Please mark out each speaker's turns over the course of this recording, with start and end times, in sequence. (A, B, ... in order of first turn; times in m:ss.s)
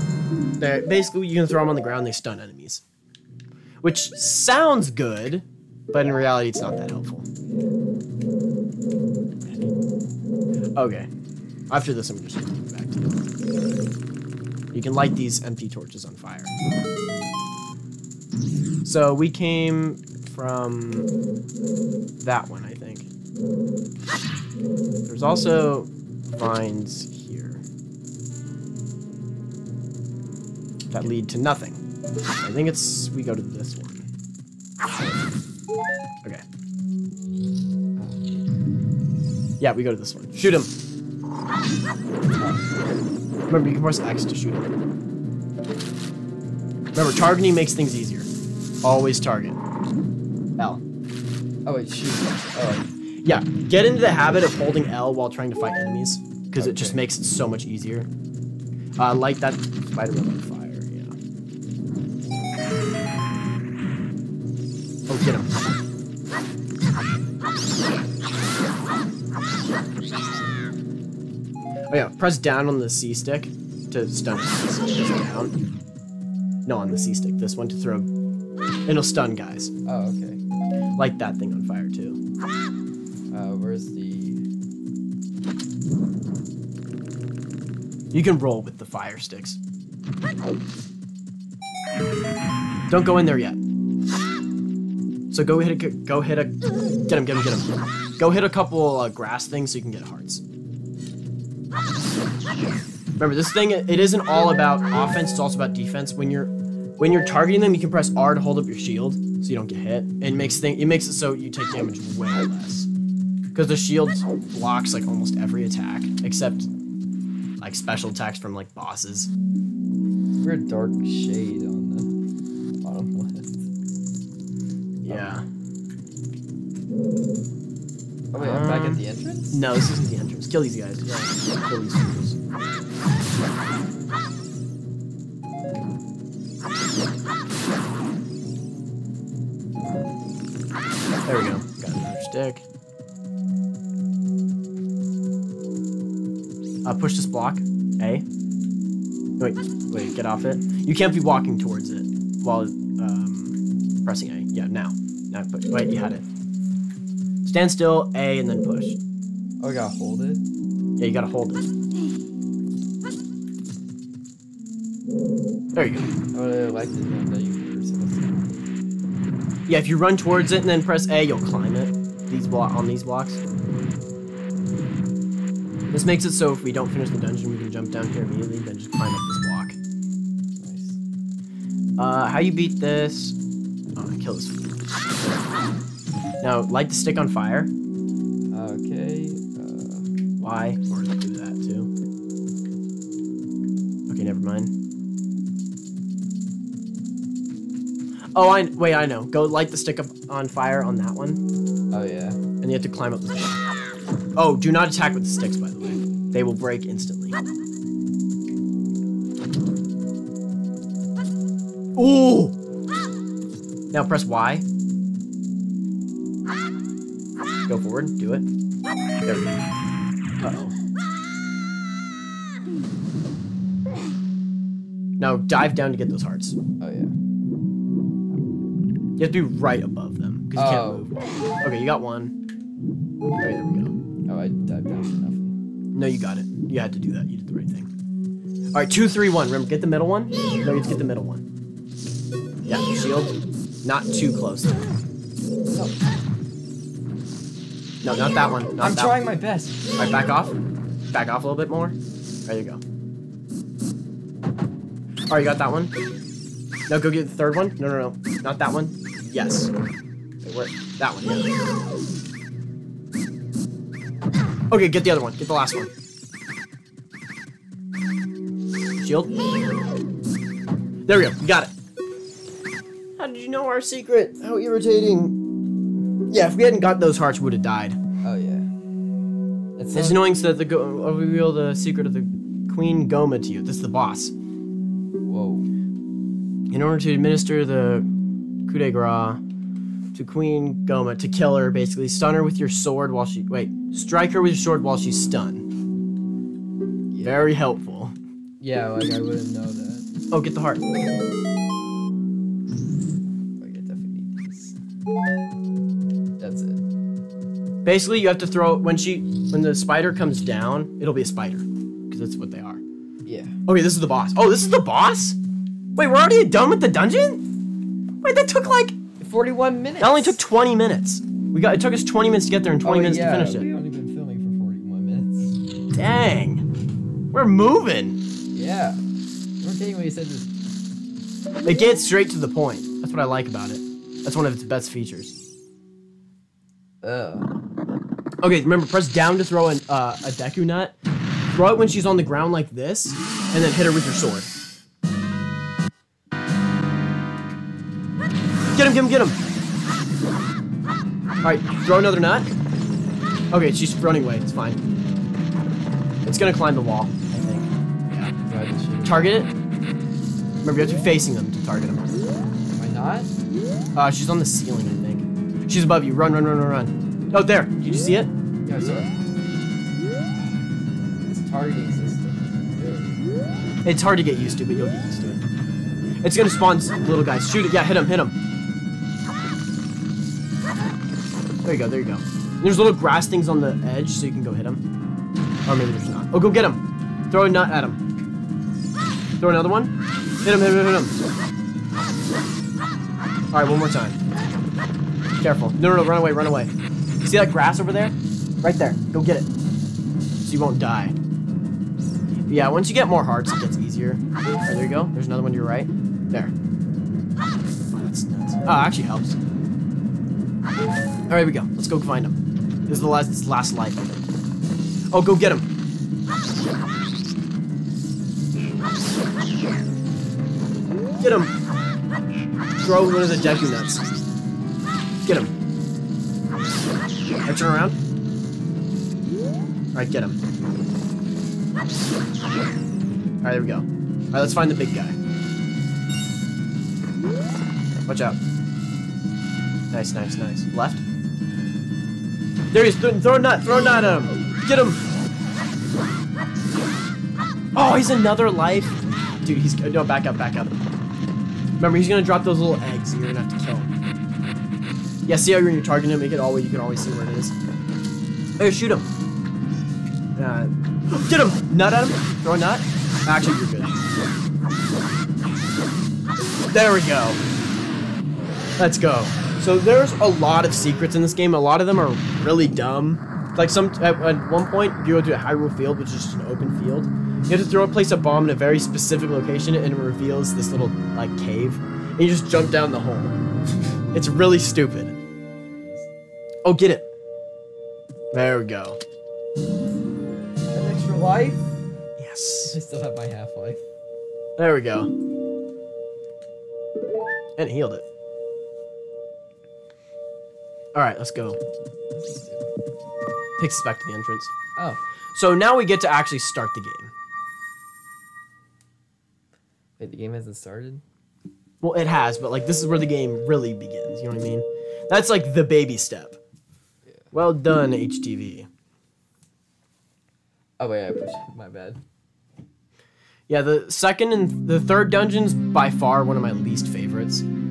0:00.6-0:02.8 A
0:03.8-0:07.3 A
0:09.5-0:09.7 A
0:10.8-0:11.1 A
0:11.7-0:13.3 A
0:13.5-0:13.9 B
0:14.7-0:16.5 A
0:18.8-0:21.1 A
0:22.2-0:23.1 A
0:25.1-0:27.6 A
0:30.9-0:31.8 A
0:32.4-0:34.1 A
0:38.0-0:38.3 B
0:39.6-0:40.7 A
0:43.5-0:44.8 A
0:46.9-0:48.3 A
0:48.8-0:49.6 A
0:51.7-0:52.9 B
0:53.2-0:58.1 A
0:56.6-0:57.0 B
0:59.0-1:01.2 A
1:05.1-1:05.6 A
1:11.9-1:15.5 A
1:16.7-1:18.1 A
1:18.9-1:19.7 A
1:19.9-1:20.4 B
1:21.0-1:22.2 A
1:23.3-1:24.4 B
1:28.1-1:29.6 A
1:32.9-1:33.6 A
1:35.3-1:40.4 A
1:43.2-1:52.9 A
1:53.5-1:56.7 A
1:57.6-1:59.3 A
2:00.4-2:02.1 B
2:02.8-2:03.7 B
2:05.0-2:05.4 A
2:05.1-2:05.4 B
2:08.3-2:09.6 B
2:08.4-2:12.4 A
2:21.3-2:22.6 A
2:26.8-2:28.2 A
2:29.4-2:36.2 A
2:37.4-2:39.0 A
2:39.6-2:40.4 B
2:41.0-2:41.7 A
2:45.8-2:46.1 A
2:46.3-2:48.6 B
2:49.7-2:53.4 A
2:55.9-2:59.8 A
3:00.6-3:01.0 B
3:02.0-3:03.4 A
3:04.0-3:04.8 A
3:06.4-3:07.7 A
3:08.5-3:10.1 B
3:10.4-3:11.9 A
3:14.1-3:14.7 A
3:18.4-3:21.4 A
3:21.9-3:22.4 B
3:22.6-3:23.6 A
3:24.4-3:27.4 A
3:32.0-3:32.6 A
3:33.9-3:34.6 A
3:37.7-3:38.5 A
3:39.2-3:39.6 A
3:40.4-3:40.7 A
3:45.2-3:46.6 A
3:46.8-3:47.2 B
3:49.2-3:52.4 A
3:50.6-3:51.1 B
3:53.4-3:53.9 A
3:54.3-3:55.6 B
3:55.9-3:57.9 A
3:58.7-4:01.4 A
4:02.7-4:04.9 A
4:05.7-4:06.0 B
4:08.0-4:09.2 A
4:08.8-4:09.8 B
4:10.0-4:10.6 A
4:11.1-4:12.8 A
4:15.3-4:15.9 A
4:16.9-4:19.7 A
4:20.4-4:21.7 A
4:24.7-4:25.9 A
4:29.0-4:29.3 A
4:31.1-4:31.7 A
4:33.2-4:35.4 A
4:36.3-4:38.0 A
4:38.2-4:38.7 B
4:39.8-4:40.3 B
4:39.9-4:44.3 A
4:45.2-4:45.7 B
4:46.7-4:48.1 A
4:48.7-4:49.4 A
4:50.1-4:55.7 A
4:57.1-4:57.5 B
4:57.2-4:58.2 A
4:58.6-5:00.1 B
5:00.3-5:00.8 A
5:03.6-5:04.8 B
5:06.4-5:06.8 B
5:07.8-5:12.8 A
5:13.3-5:13.6 B
5:13.7-5:15.4 A
5:16.0-5:17.4 A
5:18.2-5:19.0 A
5:19.2-5:20.4 B
5:20.0-5:23.7 A
5:22.8-5:25.5 B
5:25.9-5:26.7 A
5:27.3-5:28.2 A
5:28.5-5:29.0 B
5:29.6-5:30.5 B
5:31.6-5:35.4 A
5:37.0-5:37.5 B
5:38.4-5:41.0 A
5:41.5-5:44.5 A
5:48.7-5:49.4 A
5:51.4-5:52.5 A
5:53.5-5:54.8 A
5:56.2-5:58.3 A
5:58.4-5:59.5 B
5:59.0-5:59.5 A
6:00.6-6:02.2 A
6:02.8-6:03.3 B
6:04.0-6:08.3 A
6:08.6-6:09.2 B
6:11.1-6:13.2 B
6:13.8-6:15.5 A
6:16.2-6:18.4 A
6:21.6-6:24.8 A
6:25.7-6:28.0 A
6:29.4-6:31.2 A
6:33.5-6:34.2 A
6:35.4-6:39.5 A
6:40.4-6:41.2 A
6:42.5-6:46.5 A
6:47.8-6:49.4 A
6:51.3-6:52.4 A
6:52.9-6:54.3 A
6:55.1-6:55.7 A
7:01.2-7:01.5 A
7:02.8-7:04.1 A
7:05.2-7:05.5 A
7:07.4-7:08.0 A
7:10.0-7:10.4 A
7:13.4-7:15.2 A
7:18.1-7:18.4 A
7:19.9-7:21.0 A
7:22.7-7:25.0 A
7:27.8-7:30.8 A
7:31.8-7:33.9 A
7:35.3-7:37.6 A
7:38.6-7:39.1 A
7:40.4-7:44.0 A
7:46.7-7:47.4 A
7:48.8-8:03.4 A
8:04.1-8:05.2 A
8:05.7-8:06.1 B
8:06.6-8:07.1 A
8:08.3-8:09.0 A
8:10.7-8:11.6 B
8:12.2-8:12.8 A
8:12.6-8:13.8 B
8:14.6-8:15.1 A
8:17.6-8:18.0 A
8:20.9-8:21.6 A
8:22.1-8:22.7 B
8:23.6-8:24.5 A
8:25.3-8:27.1 A
8:30.0-8:31.0 B
8:31.8-8:36.4 A
8:37.3-8:38.7 A
8:40.8-8:42.0 B
8:43.5-8:47.4 A